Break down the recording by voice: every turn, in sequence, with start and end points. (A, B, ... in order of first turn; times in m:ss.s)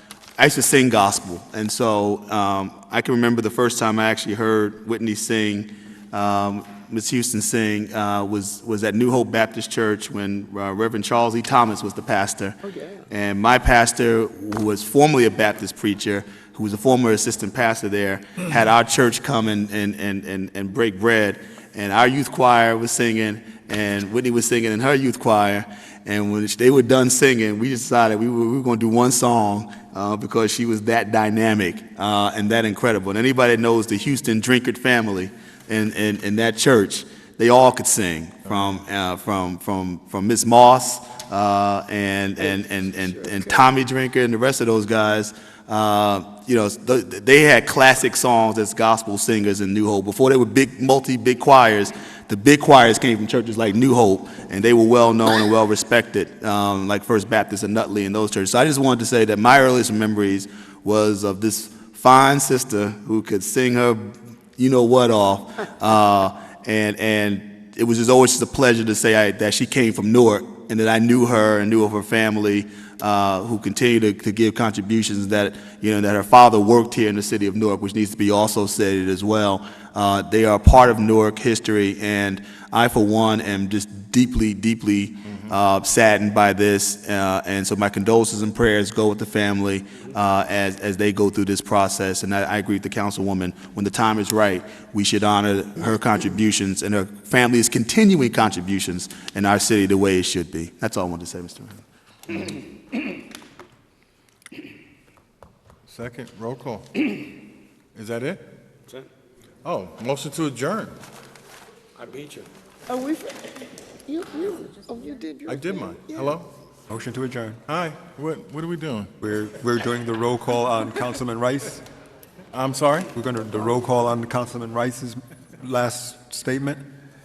0:00.4-1:42.5 A
0:12.7-0:13.0 B
1:45.9-1:47.1 C
1:48.0-1:48.5 C
1:49.6-1:51.0 C
1:52.9-1:53.5 B
1:54.1-1:56.4 B
1:55.5-1:56.5 C
1:56.9-1:57.6 D
1:57.7-1:59.1 C
1:59.2-2:01.8 D
2:02.5-2:03.1 C
2:03.1-2:06.8 D